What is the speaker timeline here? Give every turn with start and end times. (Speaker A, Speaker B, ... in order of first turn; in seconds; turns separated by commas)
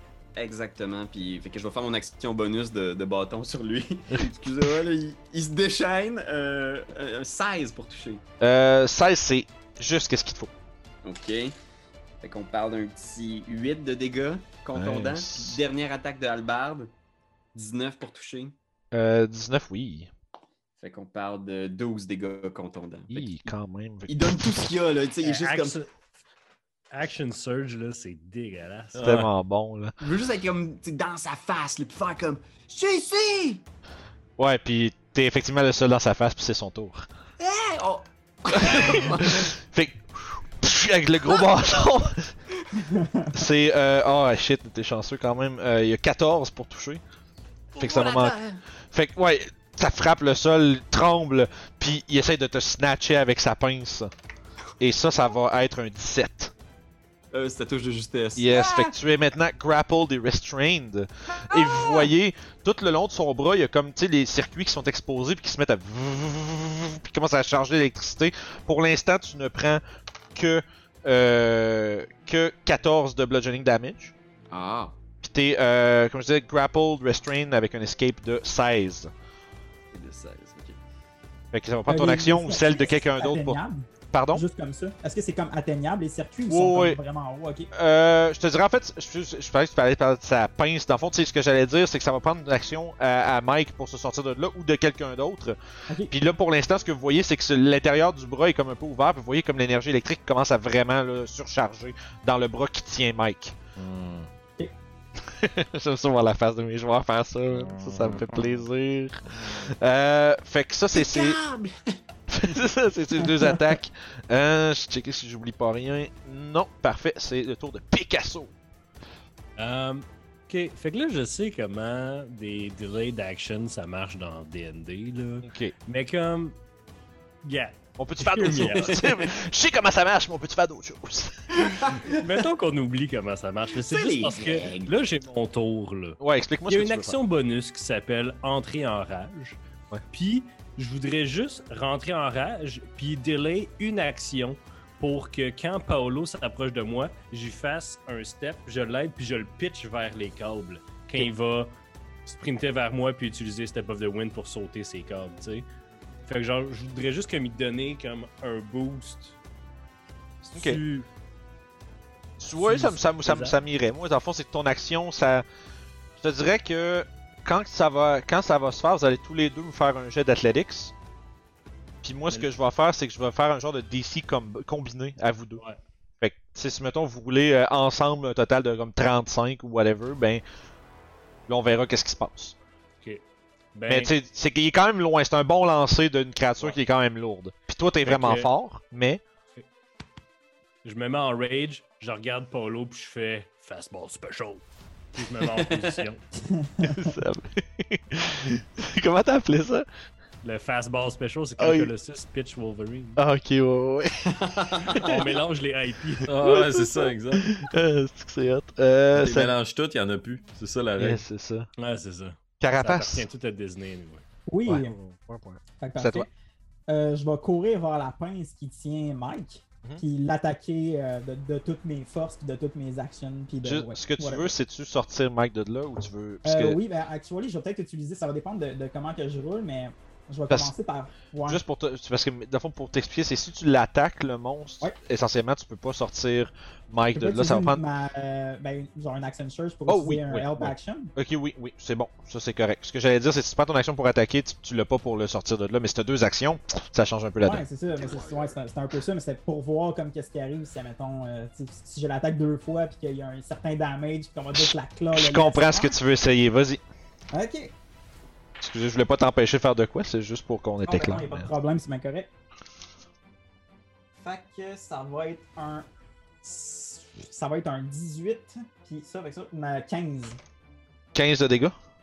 Speaker A: 0.4-8.2, Speaker B: 8.4-10.5, Speaker A: 11.0-11.6, Speaker A: 12.2-16.9, Speaker B: 14.8-15.6, Speaker A: 17.6-18.6, Speaker B: 18.9-20.1, Speaker A: 20.8-23.5, Speaker B: 23.1-24.7, Speaker A: 24.1-25.8, Speaker C: 25.2-25.9, Speaker C: 26.9-29.2, Speaker D: 28.9-29.3, Speaker B: 29.0-29.9, Speaker A: 30.0-33.6, Speaker B: 34.4-37.0, Speaker A: 37.4-39.5, Speaker B: 38.5-40.0, Speaker B: 40.6-42.3, Speaker E: 42.9-43.3, Speaker B: 43.3-47.0, Speaker A: 47.8-48.6, Speaker B: 47.8-48.4, Speaker B: 48.9-54.1, Speaker B: 54.8-56.5, Speaker A: 57.3-58.9, Speaker B: 58.4-69.8, Speaker A: 61.5-62.1, Speaker B: 70.3-74.1, Speaker A: 74.5-75.0, Speaker B: 75.2-79.1, Speaker A: 79.9-80.8, Speaker B: 81.5-83.6, Speaker E: 81.9-87.7, Speaker B: 84.1-84.4, Speaker B: 86.5-87.0, Speaker B: 87.7-95.6, Speaker B: 96.1-103.6, Speaker D: 103.8-104.3, Speaker B: 105.2-111.4, Speaker D: 107.5-108.7, Speaker A: 110.9-112.0, Speaker B: 112.3-118.5, Speaker C: 119.6-126.6, Speaker B: 125.4-125.7, Speaker C: 127.4-129.3, Speaker B: 128.0-131.7, Speaker A: 128.6-129.0, Speaker A: 131.6-132.4, Speaker C: 132.1-139.6, Speaker A: 133.8-135.0, Speaker B: 136.2-137.2, Speaker C: 140.1-151.7, Speaker C: 152.2-155.7, Speaker C: 156.2-159.4, Speaker C: 160.4-161.1, Speaker B: 160.6-160.8, Speaker B: 162.4-165.4, Speaker C: 162.6-163.6, Speaker B: 166.2-170.9, Speaker B: 172.0-175.6, Speaker B: 176.2-180.4, Speaker B: 181.5-182.6, Speaker C: 183.8-184.1, Speaker B: 183.9-189.2, Speaker C: 188.1-188.5, Speaker C: 190.8-194.6, Speaker C: 195.1-196.2, Speaker A: 195.7-196.0, Speaker E: 196.4-197.1, Speaker B: 196.8-199.9, Speaker C: 200.4-203.2, Speaker B: 201.6-201.9, Speaker B: 203.2-205.1, Speaker A: 204.2-205.1, Speaker C: 204.9-206.3, Speaker D: 206.3-207.6, Speaker B: 206.4-209.5, Speaker D: 209.1-211.2, Speaker B: 211.0-211.7, Speaker C: 211.8-214.2, Speaker B: 212.6-213.3, Speaker E: 214.5-214.9, Speaker B: 214.6-216.3, Speaker E: 215.8-216.3, Speaker E: 216.9-224.5, Speaker B: 223.6-226.8, Speaker E: 226.4-231.6, Speaker B: 231.5-237.8, Speaker E: 237.1-241.1, Speaker B: 239.9-247.6, Speaker E: 247.4-255.9, Speaker A: 248.0-248.6, Speaker B: 255.1-256.8, Speaker E: 257.3-257.7, Speaker B: 258.6-261.5, Speaker E: 260.9-262.3, Speaker E: 264.2-265.9, Speaker E: 266.4-270.4, Speaker B: 271.1-271.8